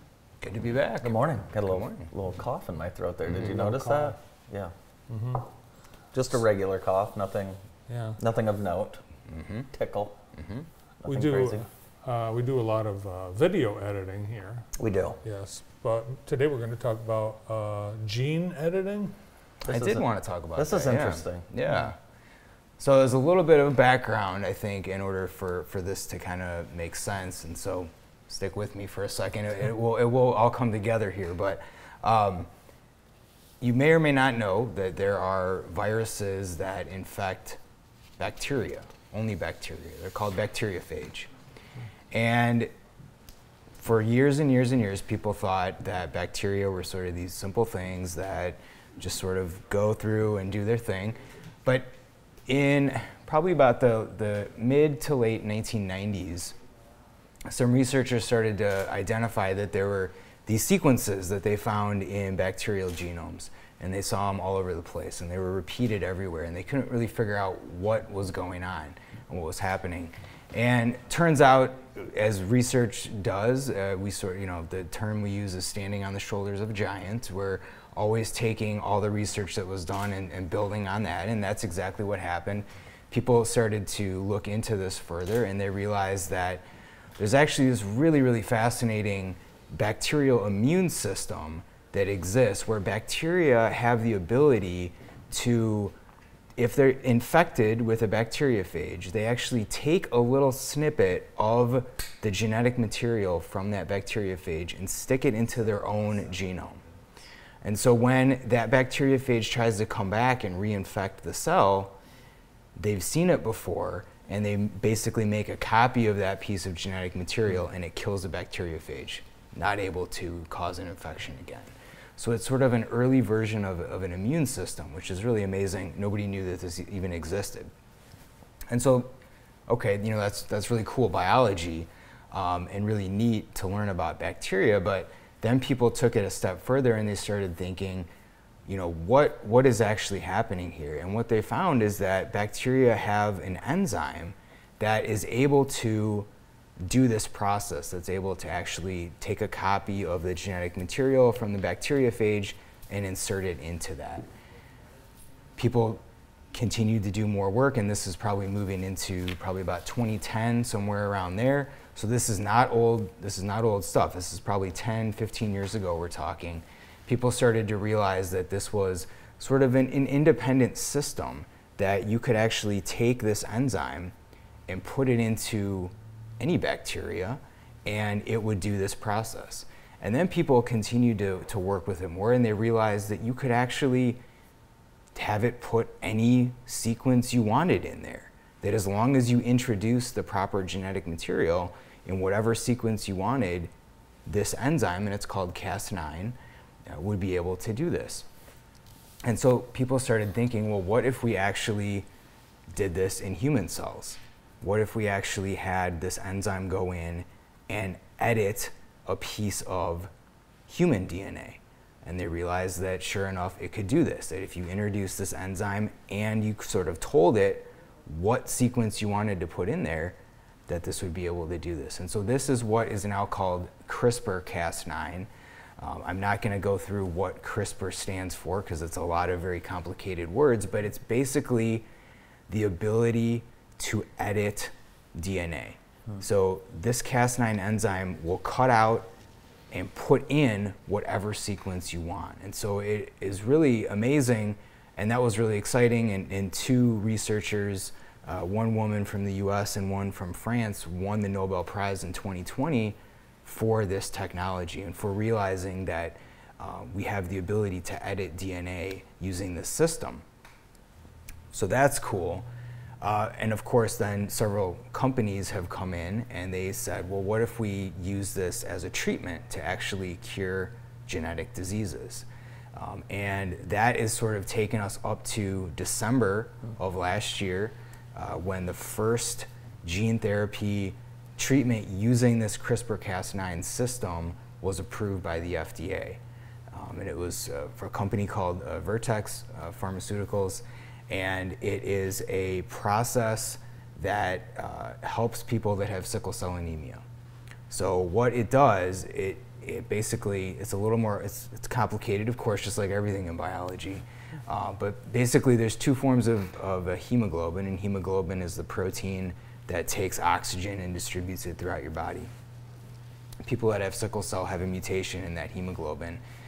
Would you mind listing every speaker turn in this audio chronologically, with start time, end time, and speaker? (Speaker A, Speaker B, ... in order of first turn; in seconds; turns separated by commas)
Speaker A: 0.4-2.1, Speaker B: 1.0-4.7, Speaker C: 3.5-4.1, Speaker C: 5.1-5.5, Speaker B: 6.1-7.6, Speaker C: 7.9-8.2, Speaker B: 8.2-9.0, Speaker A: 9.3-9.7, Speaker B: 9.7-10.2, Speaker A: 10.3-10.7, Speaker B: 11.0-11.7, Speaker C: 11.1-14.7, Speaker B: 14.8-15.2, Speaker C: 15.2-19.2, Speaker B: 19.6-21.5, Speaker A: 19.7-22.0, Speaker A: 22.8-32.5, Speaker A: 33.6-37.6, Speaker A: 38.2-41.3, Speaker A: 42.1-42.7, Speaker A: 43.8-51.9, Speaker A: 52.5-56.5, Speaker A: 57.5-86.6, Speaker A: 87.2-95.9, Speaker A: 96.6-106.8, Speaker A: 107.6-111.9, Speaker A: 112.8-127.7, Speaker A: 128.7-129.1, Speaker A: 129.7-138.1, Speaker A: 138.7-146.3, Speaker A: 146.8-154.3, Speaker A: 155.6-156.0, Speaker A: 156.5-174.1, Speaker A: 174.7-184.2, Speaker A: 185.2-193.7, Speaker A: 194.3-196.4, Speaker A: 196.9-198.3, Speaker A: 199.2-202.1, Speaker A: 202.7-210.1, Speaker A: 210.7-231.9, Speaker A: 232.5-239.1, Speaker A: 239.7-260.2, Speaker A: 261.5-262.4, Speaker A: 263.0-286.2, Speaker A: 286.7-297.0, Speaker A: 297.7-312.3, Speaker A: 313.4-316.2